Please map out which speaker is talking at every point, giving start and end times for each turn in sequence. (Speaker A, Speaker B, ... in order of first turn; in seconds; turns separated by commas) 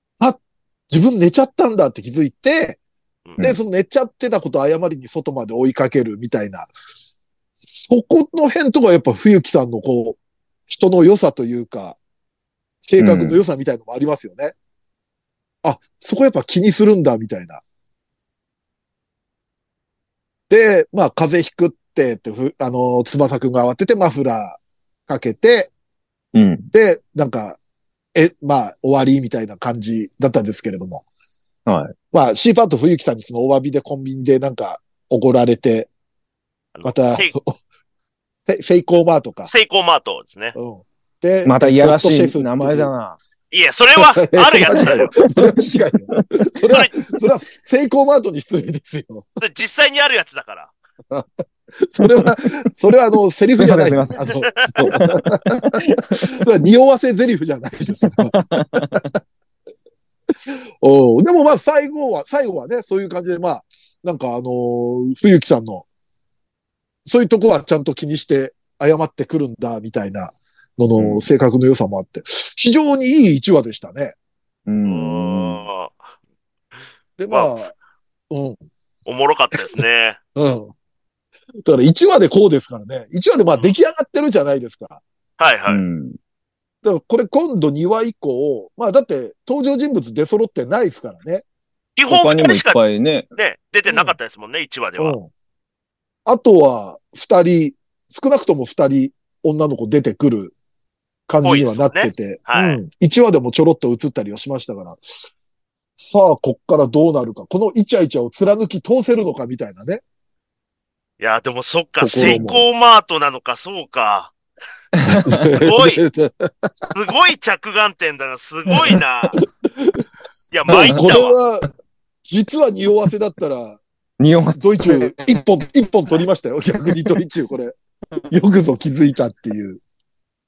Speaker A: 0.2-2.8, Speaker A: 3.4-6.7, Speaker A: 7.6-12.0, Speaker A: 12.8-14.6, Speaker B: 13.0-13.4, Speaker A: 15.6-17.6, Speaker A: 20.5-25.7, Speaker B: 26.3-26.7, Speaker A: 26.7-27.6, Speaker A: 28.1-31.0, Speaker B: 31.7-31.9, Speaker A: 32.1-35.9, Speaker C: 36.8-37.3, Speaker A: 36.9-37.5, Speaker A: 38.5-39.5, Speaker C: 39.5-40.6, Speaker A: 40.6-42.9, Speaker B: 41.5-43.2, Speaker C: 43.5-45.1, Speaker A: 44.0-49.3, Speaker B: 44.7-46.3, Speaker C: 46.7-46.9, Speaker C: 49.4-50.7, Speaker A: 51.8-59.1, Speaker B: 52.0-52.3, Speaker B: 53.6-56.3, Speaker C: 54.4-54.8, Speaker B: 58.0-59.1, Speaker A: 60.5-65.9, Speaker A: 67.0-74.2, Speaker B: 71.0-71.3, Speaker B: 74.7-75.6, Speaker C: 74.8-76.0, Speaker A: 77.2-77.7, Speaker A: 78.3-78.6, Speaker C: 79.1-80.2, Speaker A: 79.6-79.8, Speaker A: 80.4-80.7, Speaker A: 81.7-85.0, Speaker C: 85.4-85.8, Speaker B: 85.7-86.2, Speaker A: 86.8-91.4, Speaker C: 92.0-92.8, Speaker B: 92.1-93.3, Speaker C: 93.3-95.2, Speaker A: 93.9-94.2, Speaker A: 95.0-95.3, Speaker A: 96.3-100.5, Speaker A: 101.3-105.0, Speaker C: 101.4-102.8, Speaker A: 106.0-110.0, Speaker C: 111.2-114.3, Speaker A: 112.0-112.7, Speaker B: 115.0-115.5, Speaker A: 115.0-116.7, Speaker C: 115.6-116.0, Speaker C: 116.9-119.4, Speaker C: 120.5-121.3, Speaker A: 120.7-121.7, Speaker B: 120.7-121.0, Speaker A: 122.2-123.8, Speaker B: 124.2-125.2, Speaker A: 124.6-127.8, Speaker A: 128.3-129.8